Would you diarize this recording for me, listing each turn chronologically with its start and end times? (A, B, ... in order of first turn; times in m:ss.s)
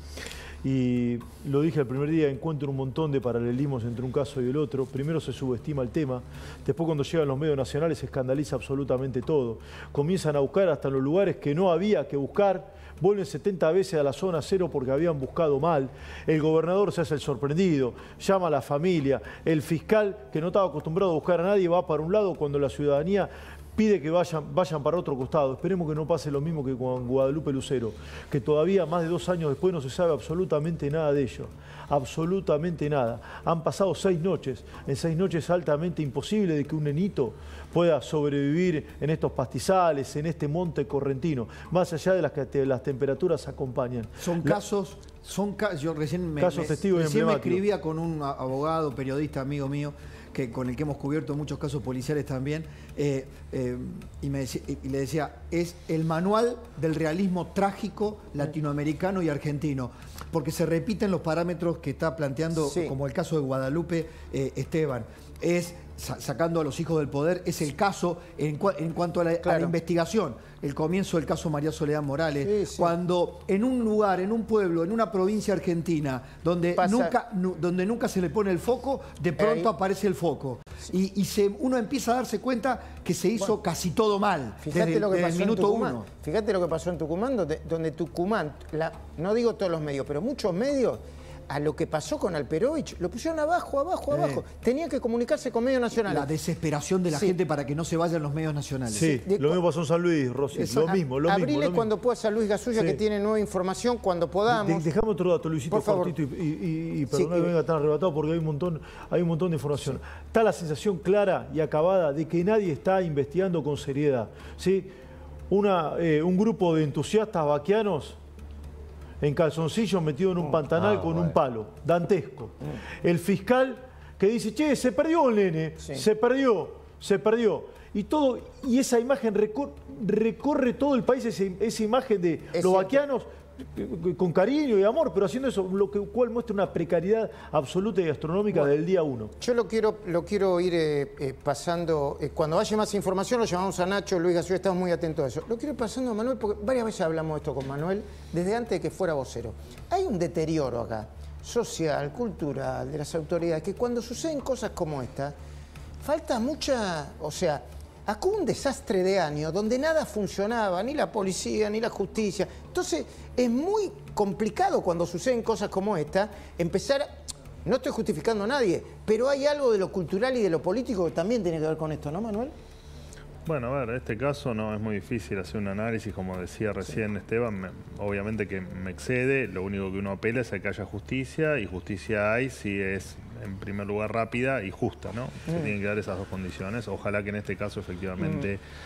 0:00.6-0:44.6 A
0:44.2-1:26.0 B
0:46.4-0:47.6 A
1:02.6-1:02.9 C
1:09.4-1:09.7 C
1:12.4-1:12.9 C
1:16.8-1:17.1 C
1:19.4-1:19.7 C
1:24.6-1:36.3 C
1:36.1-1:39.2 B
1:37.1-1:37.4 C
1:38.9-1:41.9 A
1:39.2-1:39.6 C
1:40.5-1:41.0 B
1:41.2-1:44.9 C
1:44.5-1:54.9 A
1:45.7-1:46.1 C
1:55.5-1:58.2 A
1:59.2-2:19.3 A
2:12.5-2:13.0 C
2:19.4-2:35.3 C
2:36.0-2:47.1 C
2:47.6-2:52.5 C
2:53.4-3:08.6 D
3:08.2-3:08.5 C